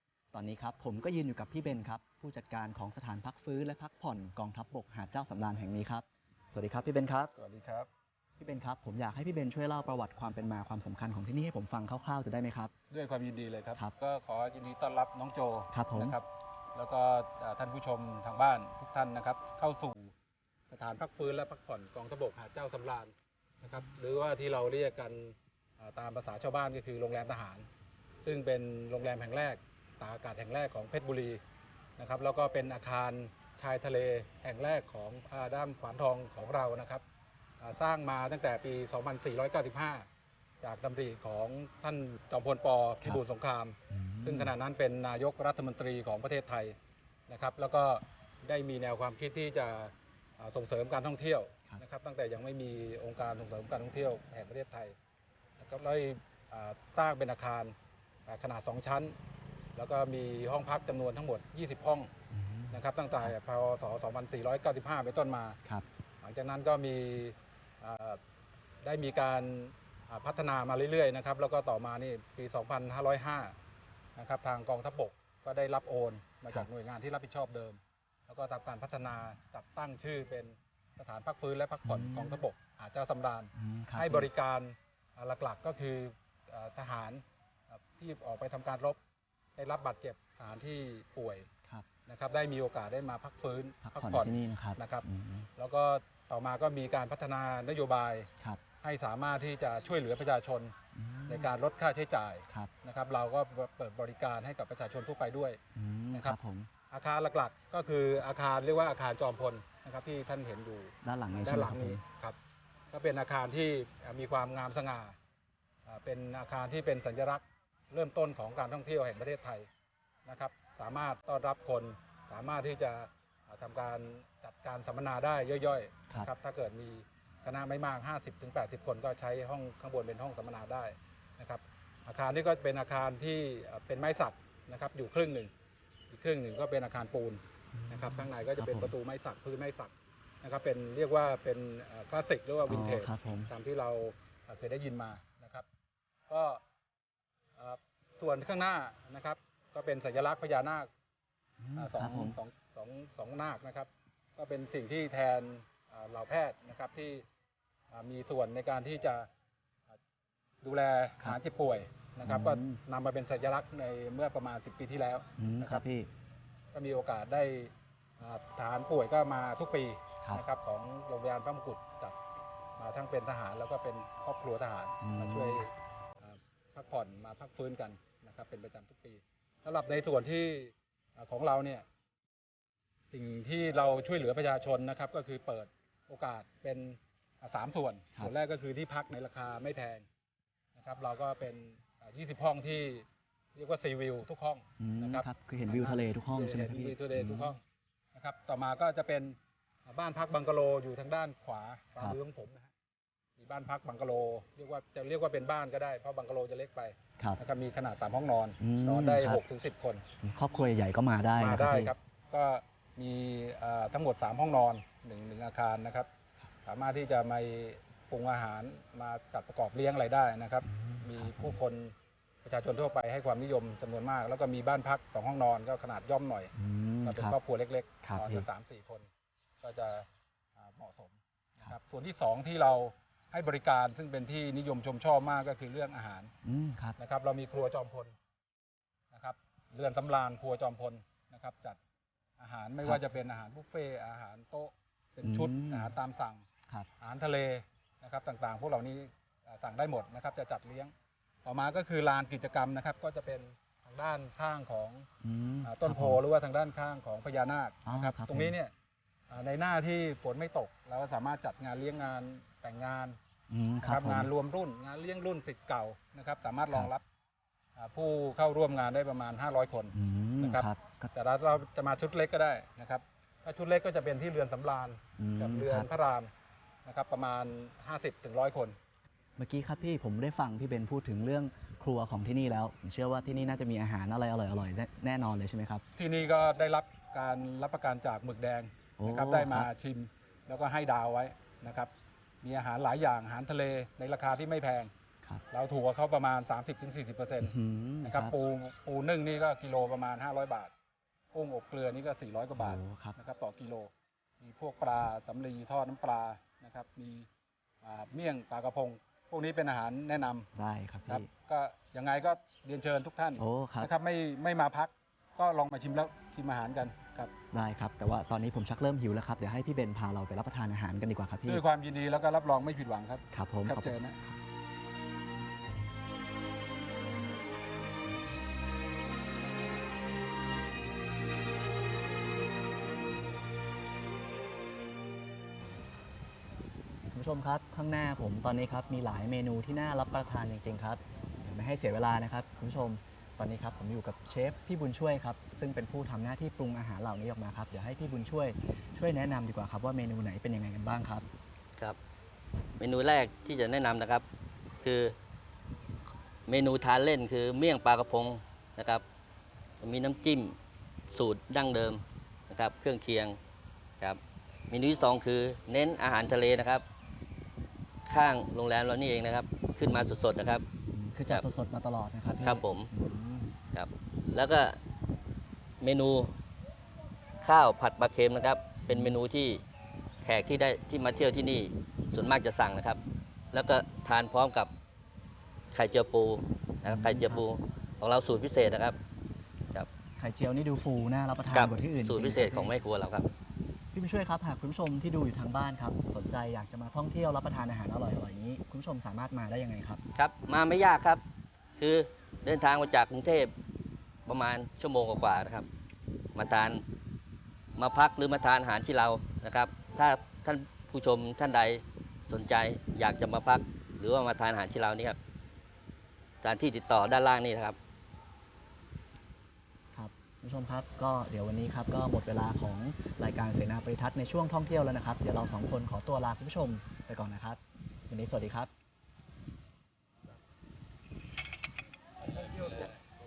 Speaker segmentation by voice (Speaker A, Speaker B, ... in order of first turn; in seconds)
Speaker A: 0.3-7.3, 8.4-12.7, 15.7-16.2, 43.9-44.5, 62.3-63.4, 81.8-82.4, 83.5-84.3, 93.8-95.5, 100.9-101.5, 105.7-106.7, 111.0-112.0, 137.7-138.9, 142.7-143.5, 151.6-152.4, 162.2-162.8, 165.4-166.1, 175.0-175.6, 194.8-197.6, 208.6-209.4, 210.2-211.9, 220.6-221.6, 226.5-227.4, 228.0-228.5, 236.4-237.0, 245.2-246.0, 255.2-256.2, 257.8-258.6, 263.5-264.3, 269.9-271.1, 275.2-275.9, 279.4-285.8, 289.0-289.7, 297.4-298.4, 302.5-303.2, 310.5-311.3, 313.4-313.9, 317.5-321.6, 323.3-324.4, 337.1-351.3, 370.9-373.5, 378.9-379.2, 386.8-387.4, 390.2-392.7, 393.9-400.0, 419.9-428.7
Speaker B: 7.3-7.9, 12.9-20.1, 20.7-27.7, 28.2-31.4, 32.0-37.0, 37.6-40.0, 40.6-46.8, 47.3-54.9, 55.6-57.7, 58.3-59.1, 59.7-62.1, 62.7-65.6, 66.2-68.2, 68.8-73.5, 74.2-89.0, 89.5-91.5, 92.0-95.0, 95.5-98.3, 98.8-100.7, 101.3-105.6, 106.9-112.4, 112.9-115.2, 115.8-119.7, 120.2-135.5, 136.1-145.7, 146.3-146.6, 147.6-150.9, 151.8-157.2, 157.9-159.3, 160.6-165.8, 166.7-172.2, 172.8-175.7, 176.2-181.8, 183.1-190.1, 190.7-197.6, 198.1-202.7, 203.4-210.0, 211.4-216.1, 216.6-226.5, 227.0-229.1, 229.6-230.1, 230.6-236.3, 237.0-238.1, 239.1-241.8, 242.4-246.4, 247.0-250.9, 251.4-255.1, 255.6-258.7, 259.3-263.2, 263.8-267.0, 267.8-276.3, 276.8-278.8, 285.9-291.9, 292.4-294.9, 295.5-300.7, 301.3-307.3, 307.8-310.5, 311.1-317.3, 321.4-324.2
Speaker C: 352.8-354.2, 354.8-355.1, 356.5-359.0, 359.8-360.6, 361.1-363.4, 364.0-366.8, 368.1-370.6, 372.4-372.9, 373.7-374.8, 375.8-376.3, 377.4-379.6, 380.2-383.0, 383.5-384.7, 385.7-389.0, 391.5-393.3, 400.1-401.2, 401.8-403.5, 404.2-405.7, 406.3-406.8, 407.8-415.2, 416.4-417.8